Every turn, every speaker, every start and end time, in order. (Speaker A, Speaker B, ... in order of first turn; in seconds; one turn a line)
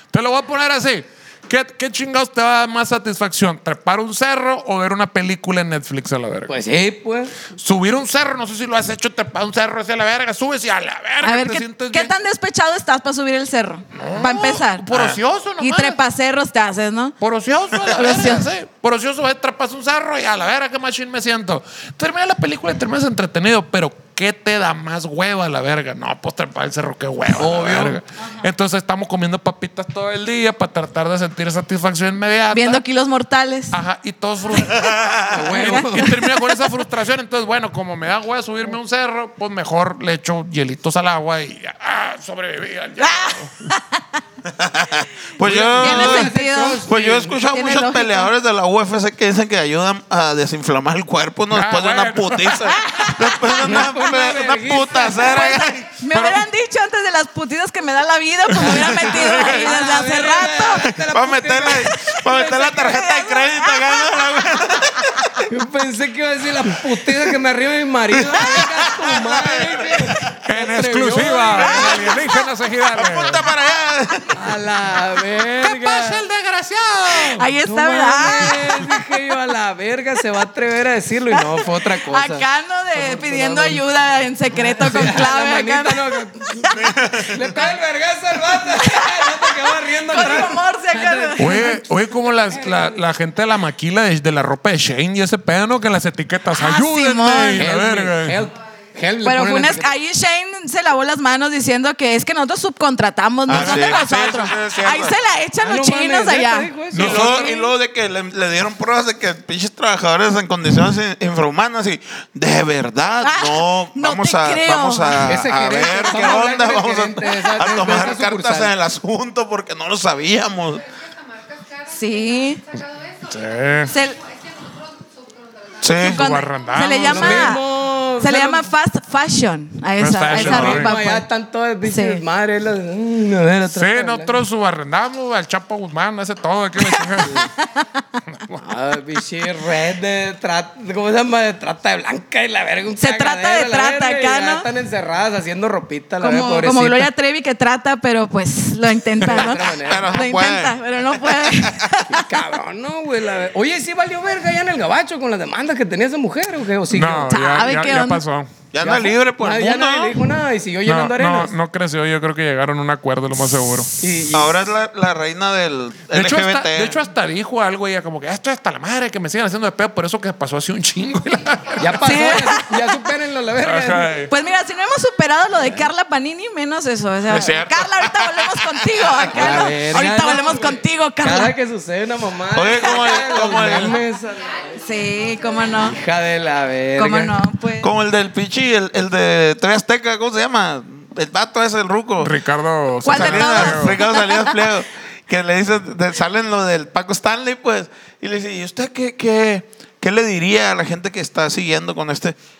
Speaker A: 0.1-6.5
Speaker B: 6.5-7.3
Speaker A: 7.5-12.1
Speaker C: 11.2-14.8
Speaker A: 13.9-16.0
Speaker D: 14.9-15.2
Speaker C: 15.6-17.1
Speaker A: 17.2-32.8
Speaker C: 17.9-18.5
Speaker B: 27.4-28.0
Speaker C: 32.5-33.8
Speaker A: 33.7-43.5
Speaker D: 34.7-35.4
Speaker B: 35.3-36.2
Speaker C: 43.0-44.0
Speaker D: 44.5-46.3
Speaker B: 45.4-47.4
Speaker C: 45.8-46.9
Speaker D: 46.9-55.9
Speaker C: 47.4-48.3
Speaker A: 51.5-52.7
Speaker C: 52.7-53.8
Speaker B: 53.5-55.6
Speaker C: 55.1-60.9
Speaker A: 56.1-56.4
Speaker B: 58.6-62.9
Speaker D: 59.1-59.7
Speaker D: 61.0-65.5
Speaker C: 62.0-64.4
Speaker B: 65.5-72.3
Speaker D: 68.2-70.3
Speaker A: 70.4-73.4
Speaker D: 71.5-72.2
Speaker D: 72.9-74.4
Speaker B: 74.3-76.2
Speaker A: 75.6-77.5
Speaker C: 77.3-78.7
Speaker B: 77.6-83.8
Speaker C: 81.8-86.2
Speaker B: 84.6-93.0
Speaker D: 86.7-87.5
Speaker C: 88.7-89.5
Speaker C: 90.0-91.7
Speaker A: 91.4-98.4
Speaker C: 96.6-97.7
Speaker B: 97.6-99.9
Speaker C: 99.2-107.7
Speaker D: 103.5-105.2
Speaker A: 103.5-104.0
Speaker B: 105.6-107.5
Speaker A: 106.9-107.4
Speaker D: 106.9-120.8
Speaker C: 113.2-116.1
Speaker B: 115.2-118.7
Speaker E: 120.7-127.4
Speaker C: 121.9-122.6
Speaker A: 123.3-123.9
Speaker C: 123.9-124.2
Speaker D: 125.8-126.2
Speaker A: 126.0-127.5
Speaker C: 126.0-127.6
Speaker B: 127.0-128.7
Speaker C: 128.2-131.2
Speaker A: 130.0-130.9
Speaker B: 130.3-134.3
Speaker D: 130.4-130.8
Speaker C: 131.8-132.2
Speaker A: 133.7-137.5
Speaker C: 136.8-138.2
Speaker B: 137.2-137.5
Speaker A: 138.3-138.6
Speaker B: 138.6-147.1
Speaker C: 143.0-144.7
Speaker C: 146.2-152.3
Speaker B: 149.2-150.2
Speaker D: 149.6-151.9
Speaker B: 152.1-157.3
Speaker A: 156.9-158.5
Speaker C: 157.3-158.2
Speaker D: 158.7-160.2
Speaker B: 158.8-161.5
Speaker A: 160.8-163.9
Speaker B: 164.0-164.5
Speaker D: 164.3-167.0
Speaker A: 166.1-172.1
Speaker E: 171.2-172.7
Speaker B: 171.8-174.1
Speaker C: 171.9-172.6
Speaker A: 173.6-174.3
Speaker E: 174.3-175.2
Speaker C: 174.3-181.5
Speaker D: 177.3-179.5
Speaker B: 179.3-184.6
Speaker E: 180.0-180.8
Speaker D: 182.5-184.0
Speaker E: 183.3-186.4
Speaker C: 184.8-186.0
Speaker B: 185.9-187.3
Speaker C: 186.9-187.9
Speaker D: 187.8-192.3
Speaker A: 192.2-194.0
Speaker C: 193.0-194.5
Speaker D: 193.1-202.4